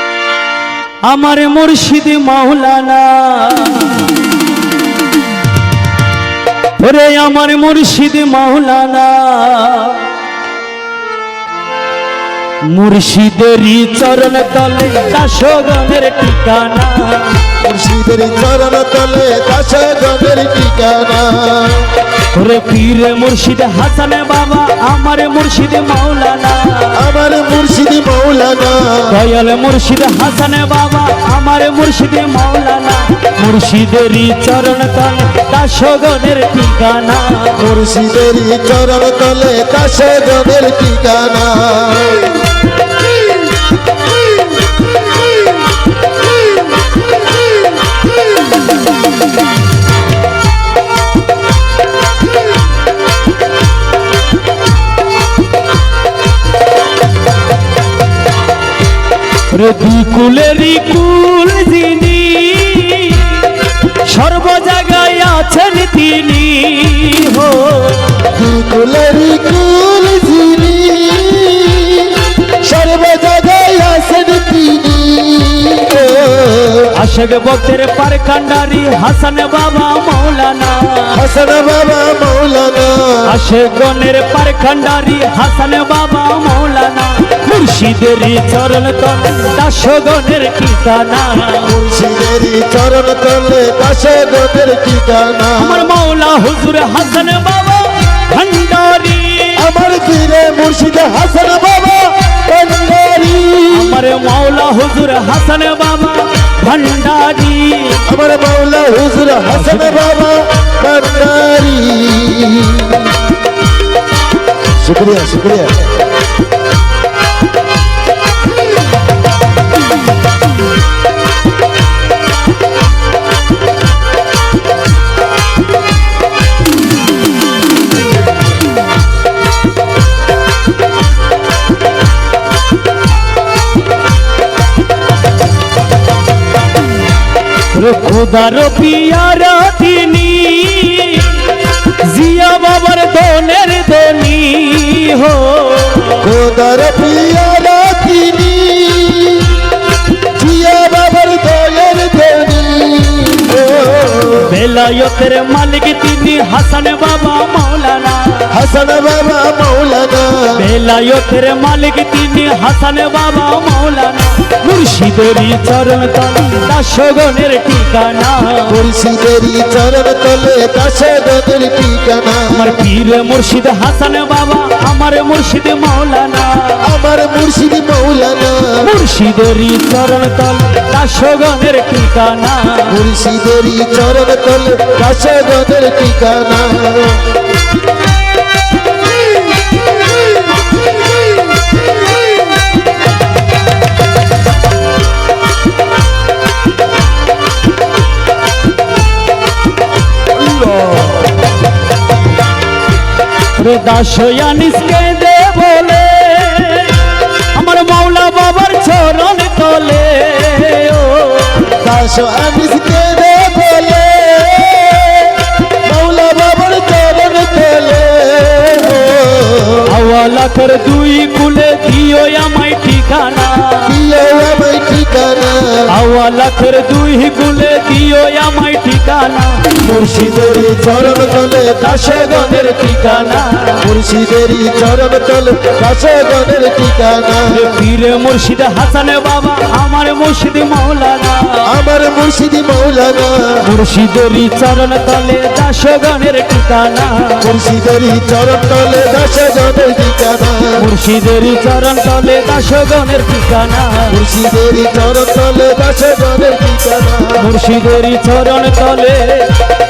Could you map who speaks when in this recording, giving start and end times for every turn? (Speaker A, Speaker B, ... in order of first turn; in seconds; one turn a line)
Speaker A: 1.0-4.1
Speaker A: 6.8-10.1
Speaker A: 12.6-17.4
Speaker B: 17.6-21.9
Speaker A: 22.3-27.0
Speaker B: 26.9-29.2
Speaker A: 29.1-37.6
Speaker B: 37.6-42.4
Speaker A: 59.5-68.2
Speaker B: 68.3-76.9
Speaker A: 76.9-81.2
Speaker B: 81.1-83.3
Speaker A: 83.2-91.7
Speaker B: 91.6-95.9
Speaker A: 95.6-99.6
Speaker B: 99.6-104.0
Speaker A: 103.7-108.0
Speaker B: 108.1-113.2
Speaker A: 109.5-109.9
Speaker B: 114.8-115.9
Speaker A: 137.7-146.2
Speaker B: 146.2-154.5
Speaker A: 154.4-158.5
Speaker B: 158.5-160.6
Speaker A: 160.5-168.8
Speaker B: 168.7-172.8
Speaker A: 172.5-176.8
Speaker B: 176.8-178.9
Speaker A: 178.8-183.0
Speaker B: 182.9-187.3
Speaker A: 203.6-211.7
Speaker B: 211.8-219.9
Speaker A: 219.8-223.9
Speaker B: 223.8-225.9
Speaker A: 225.9-229.8
Speaker B: 229.8-233.1
Speaker A: 231.8-233.8
Speaker B: 233.8-237.8
Speaker A: 237.5-241.7
Speaker B: 241.7-243.6
Speaker A: 243.6-247.4
Speaker B: 247.4-250.8
Speaker A: 250.8-254.2
Speaker B: 254.1-257.4
Speaker A: 257.4-259.6